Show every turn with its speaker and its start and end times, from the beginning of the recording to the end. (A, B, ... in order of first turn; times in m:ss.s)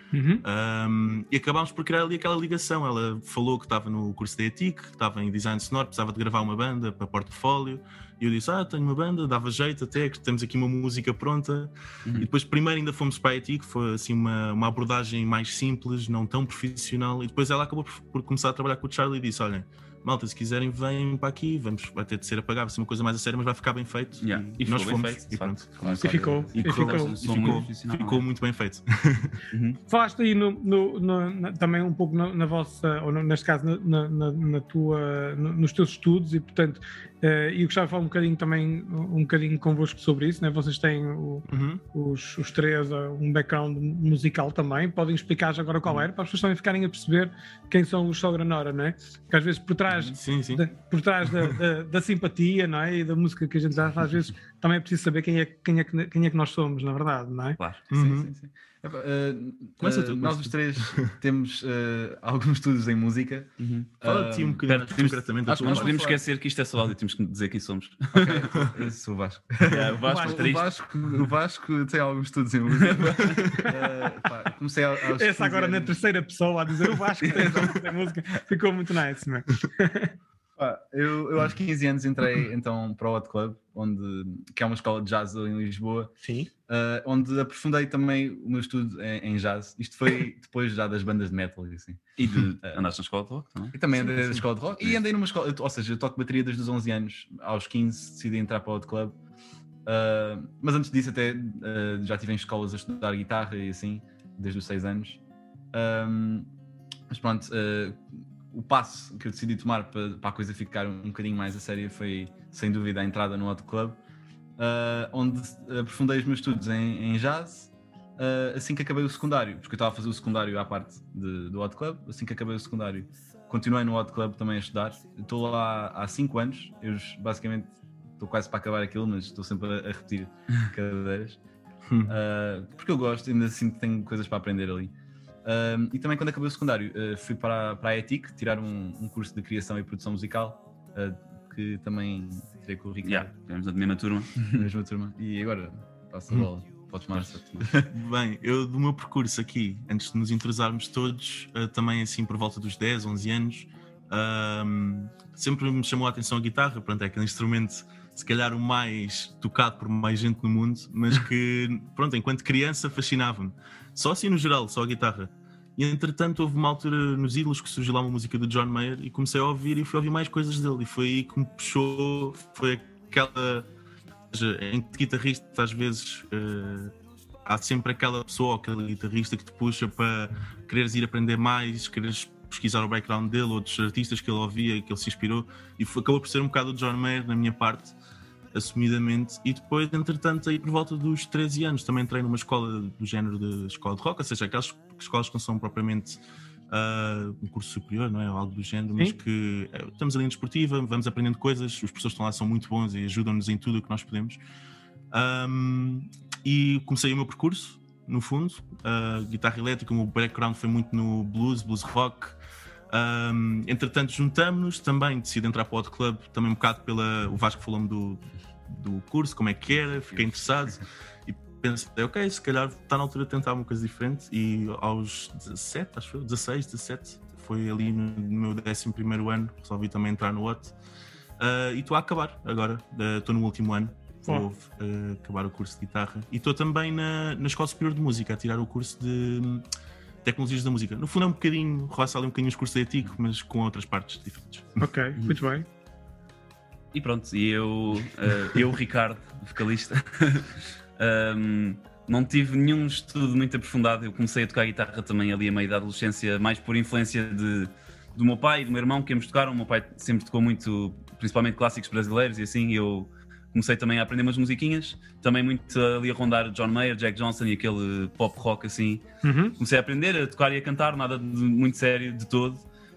0:00.1-0:00.4 A
0:00.4-0:29.4 B
0:24.2-0:28.2 C
0:25.8-0:26.5 D
0:26.0-0:27.6 A
0:29.5-0:29.8 C
0:29.9-0:57.6 A
0:41.5-0:41.8 B
0:50.0-0:50.7 B
0:57.9-0:58.3 B
0:57.9-1:04.6 D
0:59.8-1:01.1 B
1:03.6-1:03.9 C
1:04.0-1:06.0 B
1:04.6-1:08.9 C
1:05.5-1:06.2 D
1:08.1-1:16.0 D
1:09.7-1:11.3 C
1:10.1-1:10.5 A
1:12.8-1:13.7 C
1:15.1-1:20.2 A
1:20.6-1:26.1 D
1:26.2-1:26.5 A
1:26.7-1:32.8 D
1:32.2-1:33.8 C
1:33.7-1:39.2 D
1:39.9-1:45.2 D
1:45.7-1:46.5 D
1:47.1-1:54.0 D
1:54.6-2:11.4 D
2:11.9-2:12.2 B
2:12.1-2:14.9 D
2:15.4-2:23.3 D
2:23.0-2:24.7 C
2:24.5-2:27.9 D
2:27.8-2:53.7 B
2:54.3-2:56.9 B
2:57.4-3:08.0 B
3:08.5-3:24.4 B
3:25.1-3:32.4 B
3:32.9-3:50.8 B
3:51.4-3:59.6 B
4:00.2-4:04.8 B
4:04.8-4:05.7 A
4:06.9-4:29.0 C
4:29.2-4:29.6 A
4:29.6-4:32.6 C